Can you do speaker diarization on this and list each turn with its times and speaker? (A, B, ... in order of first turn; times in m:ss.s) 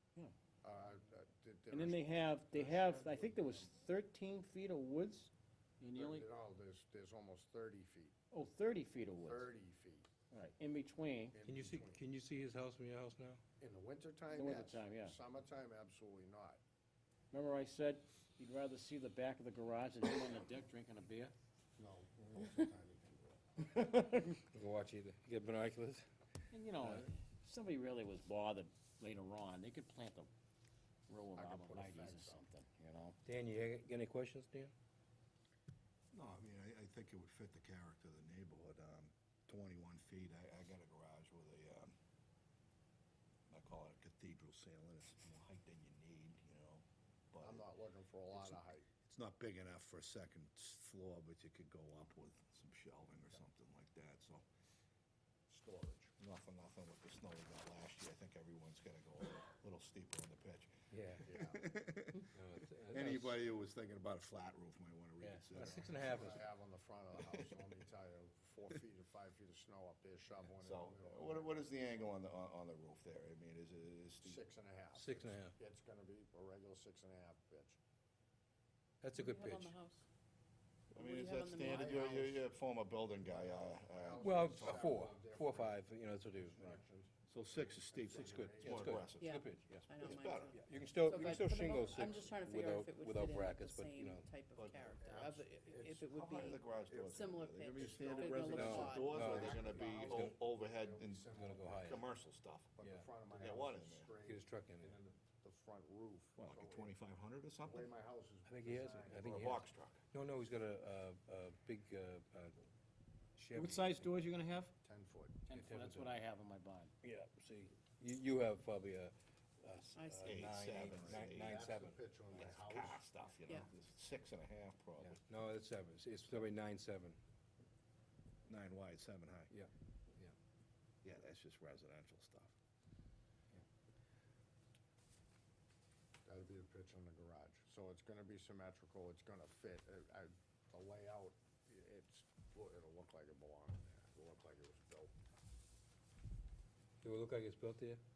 0:00.6-0:03.7 A
0:01.7-0:06.2 B
0:05.9-0:08.2 A
0:08.3-0:09.5 B
0:09.2-0:10.1 A
0:10.3-0:11.4 B
0:11.3-0:12.0 A
0:11.4-0:13.4 C
0:13.6-0:16.6 A
0:14.3-0:15.2 B
0:17.3-0:21.3 B
0:21.8-0:23.7 A
0:24.1-0:26.1 C
0:26.5-0:30.3 B
0:26.8-0:27.1 C
0:31.1-0:33.2 B
0:31.3-0:32.4 A
0:33.2-0:34.7 C
0:36.1-0:41.9 D
0:43.5-0:47.6 D
0:47.4-0:48.9 A
0:48.3-0:54.4 D
0:55.5-0:56.1 A
0:56.2-1:00.7 D
1:00.9-1:01.3 C
1:01.2-1:01.6 A
1:01.4-1:02.2 D
1:02.3-1:03.4 C
1:02.9-1:05.9 D
1:05.2-1:06.4 C
1:05.6-1:12.1 A
1:07.2-1:07.6 D
1:10.6-1:14.4 D
1:14.2-1:17.8 A
1:14.9-1:15.5 C
1:19.0-1:19.7 C
1:19.1-1:20.0 E
1:20.9-1:24.9 D
1:20.9-1:22.3 E
1:21.6-1:22.2 A
1:23.3-1:29.1 A
1:24.2-1:26.8 C
1:27.3-1:30.6 D
1:28.2-1:34.3 C
1:29.1-1:39.6 E
1:34.6-1:41.2 D
1:35.0-1:35.8 A
1:37.7-1:42.0 A
1:38.5-1:40.3 C
1:41.3-1:42.0 C
1:41.8-1:42.7 D
1:42.8-1:46.9 A
1:42.8-1:43.0 C
1:43.3-1:44.1 D
1:44.2-1:44.9 C
1:46.4-1:47.9 D
1:47.6-1:49.5 A
1:48.4-1:49.6 C
1:49.2-1:50.0 D
1:50.1-1:52.5 C
1:53.4-1:54.1 C
1:53.5-1:54.7 B
1:54.8-1:55.5 A
1:55.5-1:56.9 B
1:55.5-1:56.1 C
1:57.0-2:02.4 C
2:00.0-2:00.3 E
2:00.2-2:01.6 D
2:00.9-2:03.0 A
2:02.4-2:05.2 D
2:05.0-2:07.2 C
2:08.5-2:09.5 D
2:09.5-2:10.3 C
2:11.0-2:12.5 D
2:16.2-2:25.1 A
2:27.0-2:28.0 C